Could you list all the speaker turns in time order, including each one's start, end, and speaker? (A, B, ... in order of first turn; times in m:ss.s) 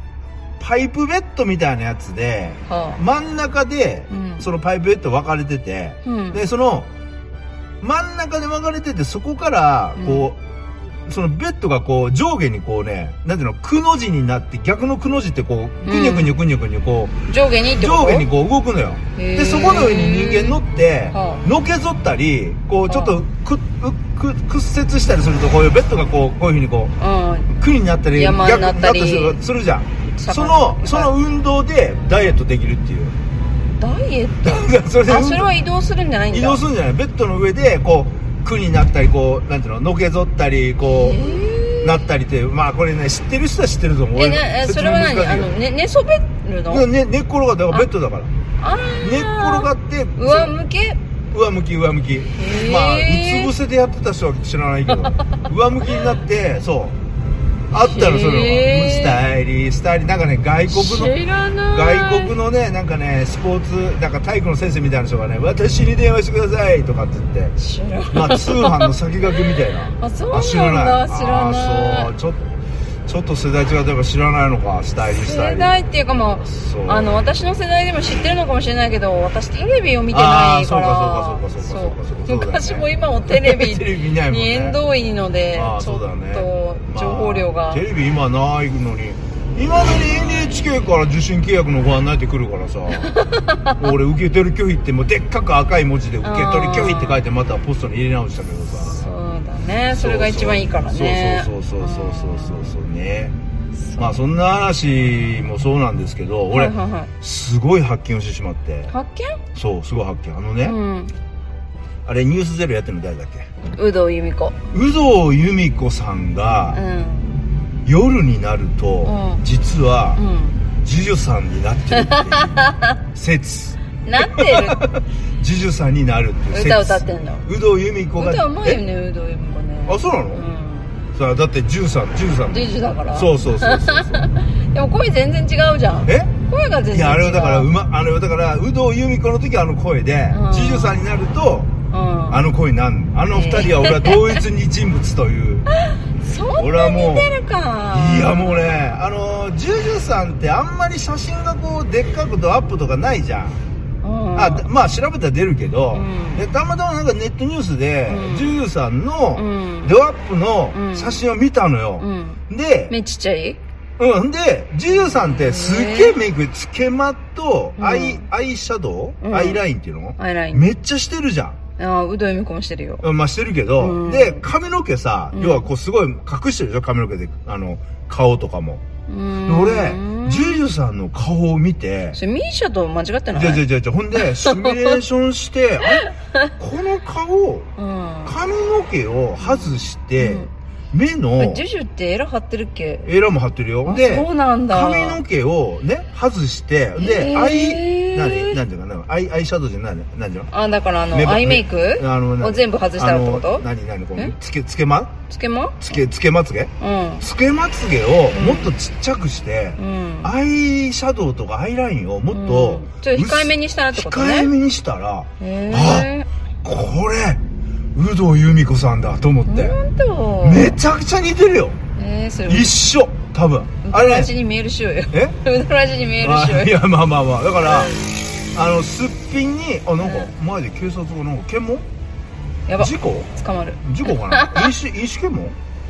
0:00.6-0:06.9 A
0:02.7-0:03.0 B
0:04.1-0:04.5 B
0:06.0-0:06.4 B
0:07.8-0:10.4 A
0:10.0-0:10.3 B
0:11.1-0:17.1 A
0:15.8-0:16.4 B
0:17.3-0:18.3 B
0:17.8-0:26.9 A
0:19.2-0:20.6 B
0:21.1-0:21.4 B
0:22.9-0:23.2 B
0:27.0-0:27.5 B
0:27.6-0:33.1 A
0:28.2-0:29.4 B
0:30.2-0:31.2 B
0:33.8-0:36.6 B
0:34.4-0:35.5 A
0:36.3-0:41.2 A
0:40.8-0:42.0 B
0:41.8-0:45.5 A
0:44.2-0:46.9 B
0:46.7-0:48.3 A
0:48.6-0:51.0 B
0:49.0-0:50.5 A
0:51.3-0:57.0 A
0:52.4-0:53.5 B
0:54.9-0:55.4 B
0:57.7-1:01.1 A
0:57.7-0:59.2 B
1:00.7-1:02.4 B
1:01.7-1:07.5 A
1:07.6-1:08.9 B
1:08.1-1:12.5 A
1:10.0-1:12.1 B
1:13.1-1:15.7 A
1:15.0-1:27.8 B
1:16.5-1:17.1 A
1:20.1-1:24.8 A
1:25.6-1:33.0 A
1:32.9-1:33.9 B
1:33.8-1:39.0 A
1:36.2-1:37.2 B
1:38.7-1:42.8 B
1:39.9-1:43.3 A
1:43.8-1:44.2 B
1:44.0-1:48.9 A
1:46.5-1:47.1 B
1:48.9-1:49.4 B
1:49.6-1:50.8 A
1:50.6-1:51.1 B
1:52.1-1:53.5 A
1:53.8-1:54.6 B
1:54.7-1:56.8 A
1:56.7-1:57.4 B
1:57.9-2:00.2 A
1:59.0-1:59.4 B
2:00.2-2:00.6 B
2:00.8-2:02.6 A
2:01.9-2:03.0 B
2:03.2-2:08.8 A
2:04.0-2:04.8 B
2:06.5-2:07.5 B
2:08.2-2:11.0 B
2:09.9-2:10.4 A
2:11.2-2:12.6 A
2:12.4-2:17.7 B
2:13.1-2:14.2 A
2:16.9-2:21.7 A
2:20.3-2:21.0 B
2:21.9-2:22.5 B
2:22.3-2:25.7 A
2:23.3-2:24.4 B
2:25.9-2:28.8 B
2:26.6-2:27.3 A
2:27.9-2:33.6 A
2:34.0-2:34.7 B
2:34.4-2:42.9 A
2:35.9-2:36.5 B
2:38.1-2:38.6 B
2:39.4-2:40.0 B
2:40.7-2:41.3 B
2:42.0-2:43.6 B
2:44.0-2:51.6 A
2:44.9-2:46.2 B
2:47.8-2:48.3 B
2:49.2-2:49.6 B
2:50.2-2:50.7 B
2:51.8-2:53.0 B
2:53.0-2:58.8 A
2:53.8-2:54.5 B
2:55.3-2:55.7 B
2:59.1-3:00.7 B
2:59.5-3:02.2 A
3:02.1-3:03.7 B
3:03.4-3:06.0 A
3:04.2-3:05.0 B
3:05.8-3:06.5 B
3:06.6-3:07.7 A
3:07.8-3:08.4 B
3:08.3-3:11.6 A
3:09.4-3:10.5 B
3:11.4-3:13.1 B
3:13.1-3:20.5 A
3:13.8-3:15.2 B
3:17.0-3:18.6 B
3:20.5-3:24.3 B
3:21.1-3:25.1 A
3:25.3-3:25.9 B
3:25.8-3:26.7 A
3:26.8-3:27.3 B
3:27.2-3:36.1 A
3:28.3-3:28.7 B
3:29.8-3:30.3 B
3:32.3-3:34.5 B
3:35.4-3:36.3 B
3:36.6-3:37.4 A
3:38.0-3:39.8 A
3:39.5-3:40.8 B
3:40.4-3:41.8 A
3:42.0-3:42.8 B
3:42.5-3:44.3 A
3:43.8-3:46.8 B
3:46.2-3:47.9 A
3:47.7-3:48.0 B
3:48.5-3:51.8 A
3:50.0-3:50.3 B
3:52.7-3:54.7 B
3:52.8-3:53.3 A
3:53.8-3:55.6 A